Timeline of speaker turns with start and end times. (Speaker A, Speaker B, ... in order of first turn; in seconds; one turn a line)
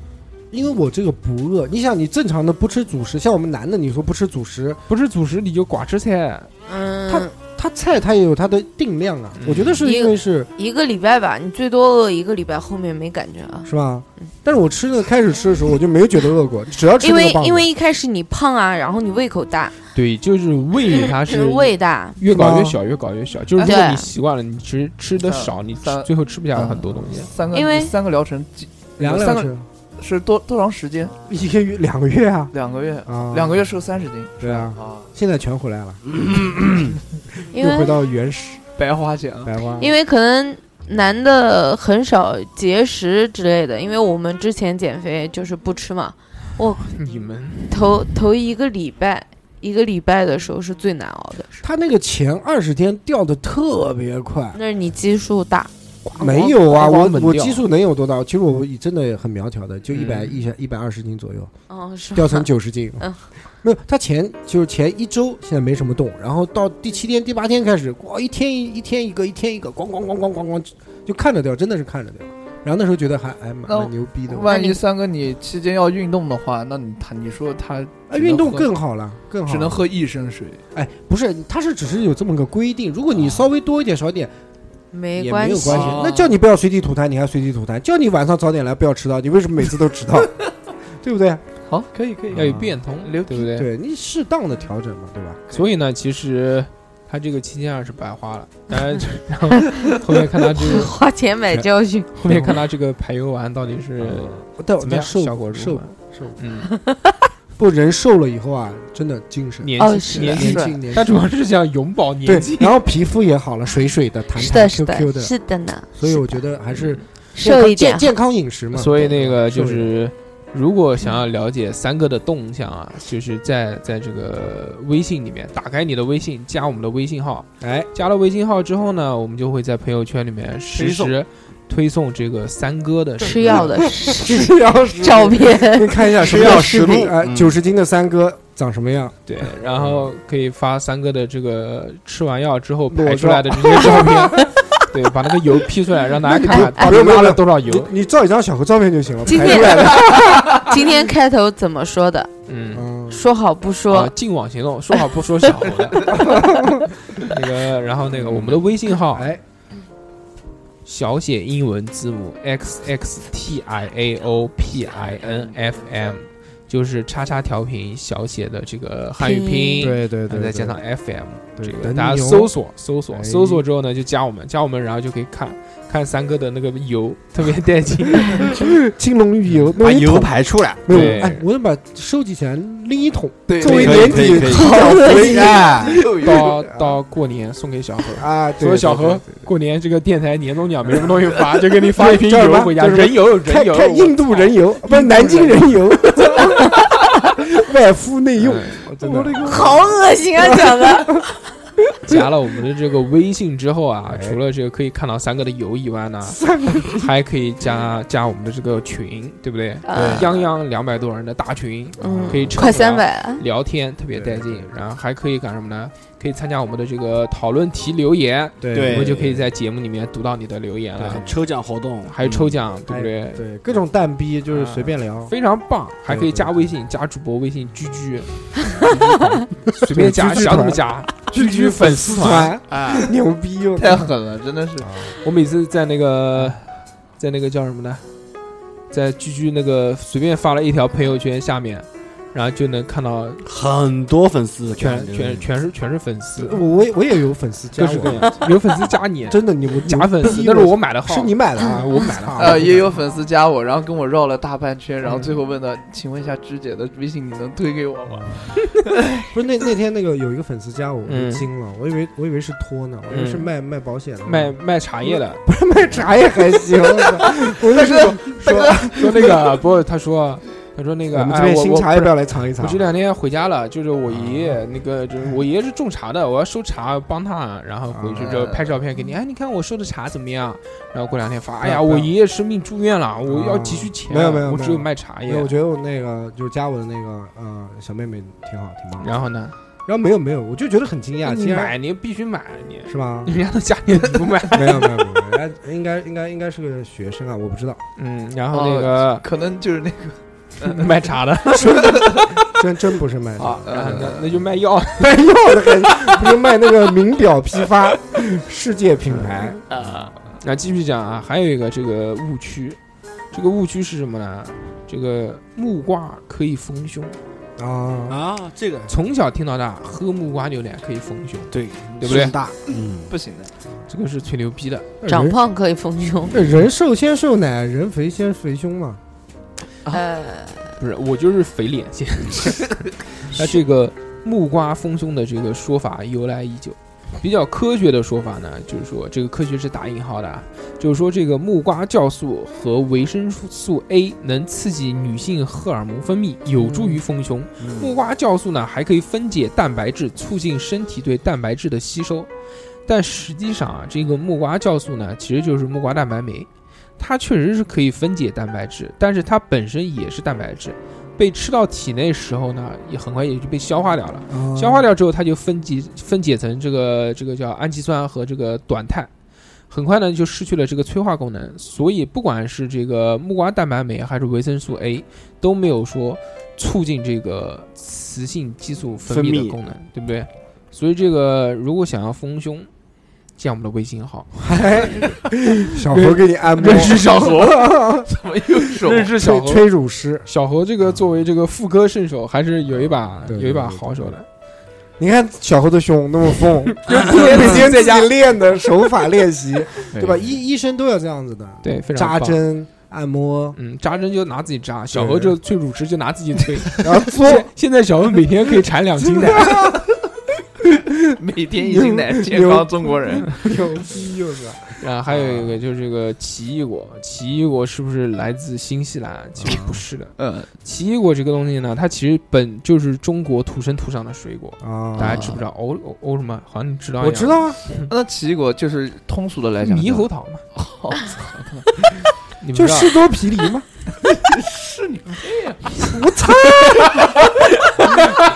Speaker A: 0.5-4.8
Speaker B: 4.9-6.5
Speaker C: 6.7-7.3
Speaker A: 7.1-10.5
Speaker B: 9.4-9.8
Speaker C: 9.8-13.7
Speaker A: 13.6-17.7
Speaker C: 17.0-19.7
Speaker B: 19.9-27.3
Speaker C: 20.9-22.2
Speaker A: 22.2-22.8
Speaker C: 23.6-24.1
Speaker D: 25.2-31.1
Speaker C: 27.5-27.9
Speaker A: 29.0-29.7
Speaker A: 31.3-32.5
Speaker D: 32.5-35.1
Speaker A: 33.0-33.6
Speaker A: 34.4-38.6
Speaker C: 37.5-38.0
Speaker D: 38.8-39.5
Speaker A: 39.4-39.9
Speaker C: 39.8-46.9
Speaker B: 46.7-48.0
Speaker C: 47.7-51.5
Speaker A: 51.6-54.6
Speaker C: 54.5-56.5
Speaker B: 56.1-57.6
Speaker A: 56.2-61.5
Speaker B: 59.9-60.4
Speaker C: 61.7-62.5
Speaker A: 62.1-63.1
Speaker A: 63.6-74.5
Speaker D: 73.7-78.7
Speaker C: 74.5-74.8
Speaker A: 78.1-79.8
Speaker D: 79.4-80.6
Speaker A: 80.7-84.3
Speaker D: 83.2-83.4
Speaker C: 84.9-86.0
Speaker A: 85.1-90.3
Speaker D: 85.7-86.4
Speaker A: 91.0-91.4
Speaker D: 91.7-93.5
Speaker A: 92.3-92.8
Speaker B: 92.3-93.7
Speaker A: 93.3-95.4
Speaker B: 95.5-100.9
Speaker C: 100.4-102.1
Speaker B: 102.1-106.7
Speaker A: 102.3-102.6
Speaker A: 104.0-106.4
Speaker C: 106.7-107.2
Speaker A: 107.6-111.1
Speaker B: 109.6-112.8
Speaker C: 109.8-110.8
Speaker A: 112.2-115.3
Speaker C: 114.3-116.2
Speaker A: 115.9-120.0
Speaker B: 116.7-117.0
Speaker C: 117.3-118.1
Speaker B: 118.7-133.7
Speaker A: 127.6-127.9
Speaker E: 130.7-131.1
Speaker C: 133.2-136.2
Speaker A: 133.3-140.1
Speaker E: 136.2-137.6
Speaker B: 139.3-147.9
Speaker A: 142.9-144.5
Speaker A: 146.2-150.7
Speaker C: 146.3-147.0
Speaker C: 149.2-152.3
Speaker B: 152.5-152.9
Speaker A: 152.7-153.2
Speaker C: 153.1-154.1
Speaker B: 153.9-156.4
Speaker A: 156.1-156.9
Speaker B: 157.1-159.3
Speaker A: 158.1-159.4
Speaker B: 160.8-178.5
Speaker D: 165.0-165.5
Speaker C: 169.2-169.9
Speaker A: 169.8-170.8
Speaker A: 171.6-172.5
Speaker A: 173.1-173.6
Speaker A: 178.2-187.0
Speaker E: 179.7-181.2
Speaker B: 180.9-181.4
Speaker D: 183.5-184.5
Speaker E: 183.6-186.1
Speaker C: 184.4-185.5
Speaker D: 185.6-186.6
Speaker B: 186.2-195.6
Speaker A: 188.2-189.5
Speaker A: 190.8-201.2
Speaker B: 198.4-199.2
Speaker C: 199.4-201.3
Speaker B: 202.0-221.3
Speaker A: 204.1-204.4
Speaker A: 206.3-207.1
Speaker C: 209.8-210.5
Speaker E: 209.9-210.2
Speaker A: 212.0-212.7
Speaker C: 212.0-213.4
Speaker A: 214.1-214.7
Speaker A: 218.6-219.4
Speaker E: 218.7-219.4
Speaker A: 221.0-221.4
Speaker E: 221.0-222.6
Speaker B: 222.1-223.4
Speaker A: 222.9-225.3
Speaker B: 224.5-232.6
Speaker A: 226.1-226.7
Speaker A: 229.7-234.1
Speaker D: 232.7-233.1
Speaker D: 233.8-235.0
Speaker A: 234.8-235.1
Speaker B: 235.2-238.0
Speaker B: 238.9-243.4
Speaker E: 243.4-245.5
Speaker B: 244.8-246.6
Speaker A: 246.4-248.5
Speaker B: 247.8-252.8
Speaker A: 249.3-252.9
Speaker D: 252.4-259.2
Speaker B: 255.1-255.3
Speaker A: 258.2-258.4
Speaker A: 259.3-269.4
Speaker B: 261.1-261.5
Speaker B: 263.1-263.5
Speaker B: 264.2-265.4
Speaker D: 267.3-269.2
Speaker B: 268.4-285.5
Speaker A: 271.1-272.8
Speaker A: 274.2-274.5
Speaker A: 277.9-278.4
Speaker D: 278.2-278.7
Speaker A: 281.6-282.1
Speaker A: 283.2-289.2
Speaker B: 289.0-289.6
Speaker A: 289.9-291.7
Speaker B: 291.2-295.0
Speaker A: 292.9-293.3
Speaker A: 294.5-297.8
Speaker B: 298.0-299.2
Speaker D: 298.5-300.9
Speaker B: 300.6-302.1
Speaker A: 301.6-304.2
Speaker D: 301.7-302.2
Speaker B: 303.4-305.3
Speaker D: 303.7-304.3
Speaker A: 305.0-309.6
Speaker D: 309.7-310.1
Speaker B: 310.4-312.8
Speaker B: 313.3-317.2
Speaker A: 317.6-318.2
Speaker E: 318.1-318.9
Speaker B: 318.9-322.4
Speaker E: 321.5-323.1
Speaker D: 322.7-323.5
Speaker B: 323.9-324.9
Speaker A: 325.0-325.4
Speaker C: 325.0-326.4
Speaker A: 326.3-329.0
Speaker C: 329.9-330.7
Speaker B: 330.8-352.3
Speaker A: 346.7-347.0
Speaker E: 347.6-347.9
Speaker B: 352.9-369.1
Speaker A: 364.3-364.9
Speaker B: 369.7-382.7
Speaker E: 379.1-379.6
Speaker B: 383.4-384.4
Speaker A: 384.4-388.1
Speaker B: 385.8-387.8
Speaker D: 388.1-389.1
Speaker B: 388.8-389.7
Speaker A: 389.0-390.3
Speaker B: 390.2-394.2
Speaker A: 393.2-394.1
Speaker A: 395.0-403.6
Speaker B: 396.8-398.1
Speaker D: 399.9-400.3
Speaker B: 401.6-402.4
Speaker B: 403.6-409.6
Speaker A: 404.9-405.4
Speaker A: 406.8-407.5
Speaker A: 409.0-409.9
Speaker D: 411.1-413.3
Speaker A: 411.6-415.6
Speaker B: 414.8-427.9
Speaker A: 419.4-419.8
Speaker D: 420.2-420.5
Speaker A: 424.6-425.4
Speaker D: 425.0-425.4
Speaker A: 427.0-427.6
Speaker D: 427.9-431.7
Speaker B: 429.6-430.4
Speaker B: 432.4-433.0
Speaker A: 432.5-433.6
Speaker D: 434.0-435.7
Speaker A: 435.8-437.1
Speaker B: 436.8-437.1
Speaker B: 437.8-438.2